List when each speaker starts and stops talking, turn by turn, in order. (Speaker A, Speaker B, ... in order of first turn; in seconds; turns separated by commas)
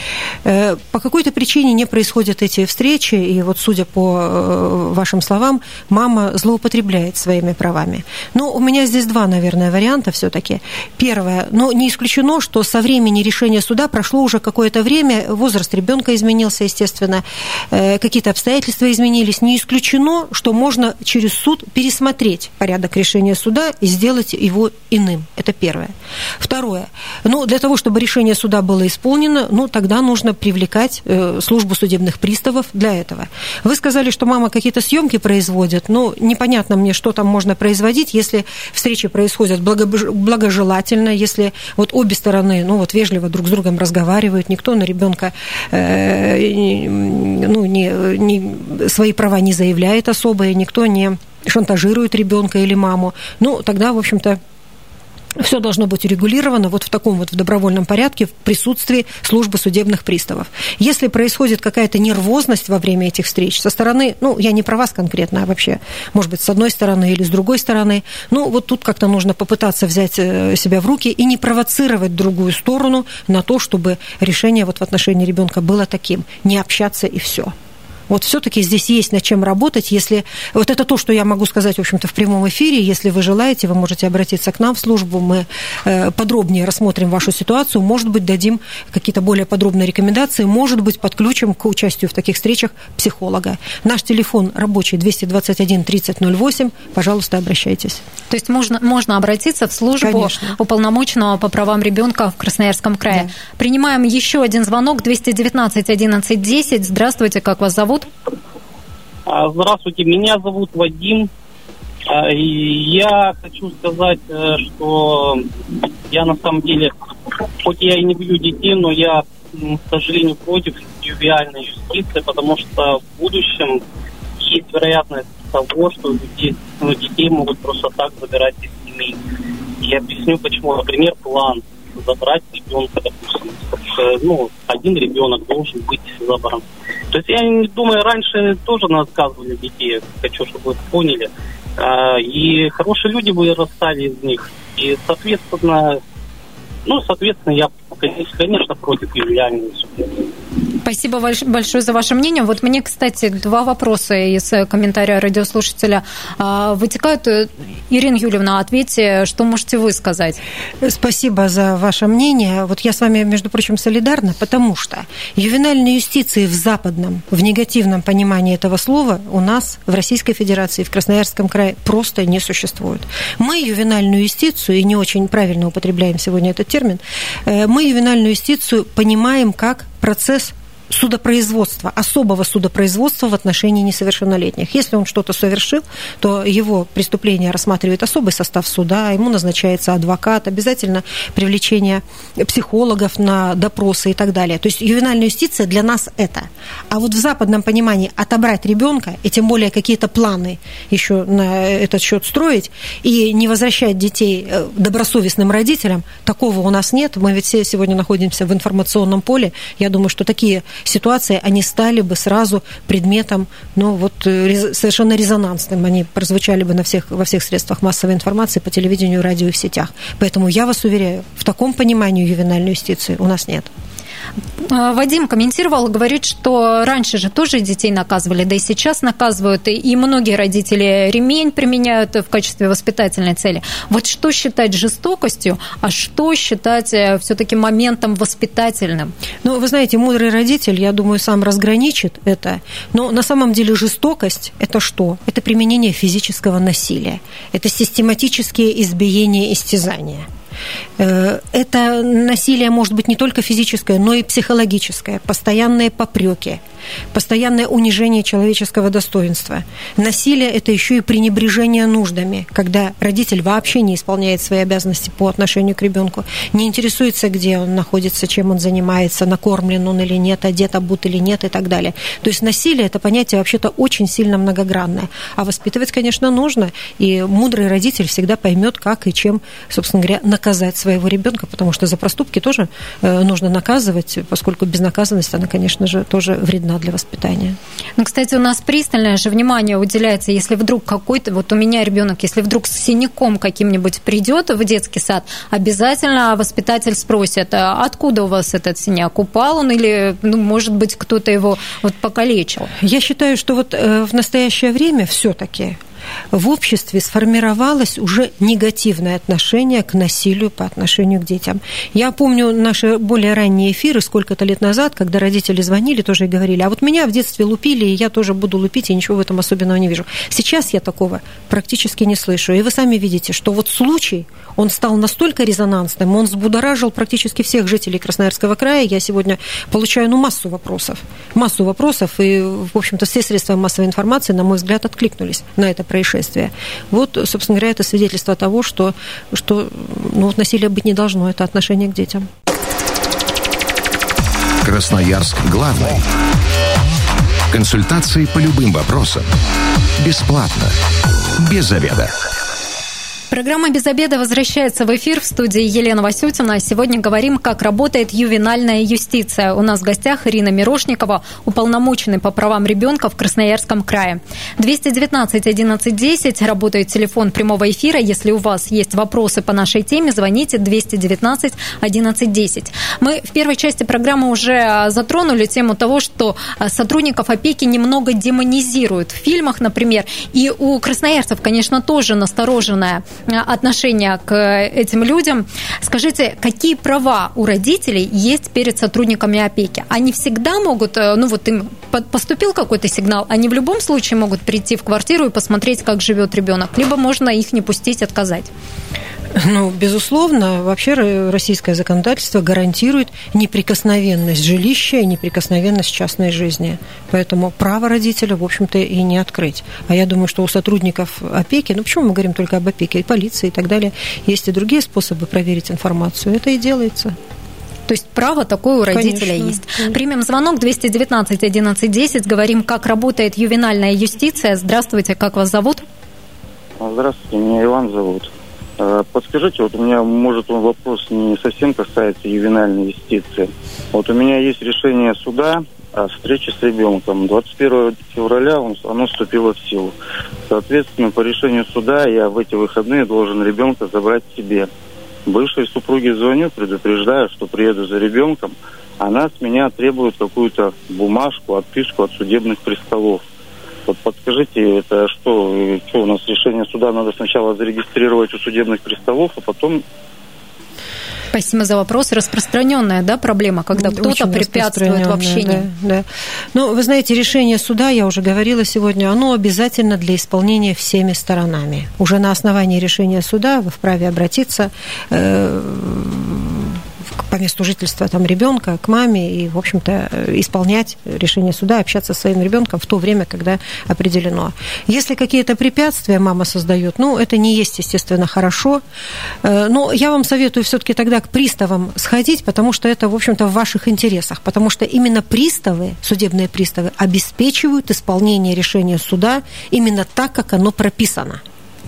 Speaker A: 0.4-54.4, Speaker A: 55.4-77.5, Speaker A: 78.1-98.0, Speaker B: 98.3-108.1, Speaker A: 100.0-100.6, Speaker C: 109.2-111.3, Speaker C: 112.1-116.9, Speaker C: 117.6-123.8, Speaker C: 124.4-129.2, Speaker C: 129.8-146.0, Speaker C: 146.8-150.3, Speaker B: 150.8-160.4, Speaker A: 160.8-223.7, Speaker B: 224.6-239.1, Speaker A: 239.4-250.3, Speaker A: 251.0-256.6, Speaker A: 257.1-287.6, Speaker B: 288.0-302.7, Speaker A: 302.8-305.8, Speaker A: 306.3-342.3, Speaker D: 344.6-346.0, Speaker D: 347.5-349.2, Speaker D: 350.0-350.8, Speaker D: 351.4-352.2, Speaker B: 353.3-398.5, Speaker A: 399.3-417.1, Speaker B: 417.9-425.8, Speaker A: 418.9-419.9, Speaker E: 426.8-439.9, Speaker E: 440.5-444.7, Speaker E: 445.2-453.2, Speaker E: 453.9-459.8, Speaker B: 461.3-465.7, Speaker A: 463.7-488.8, Speaker A: 489.4-501.4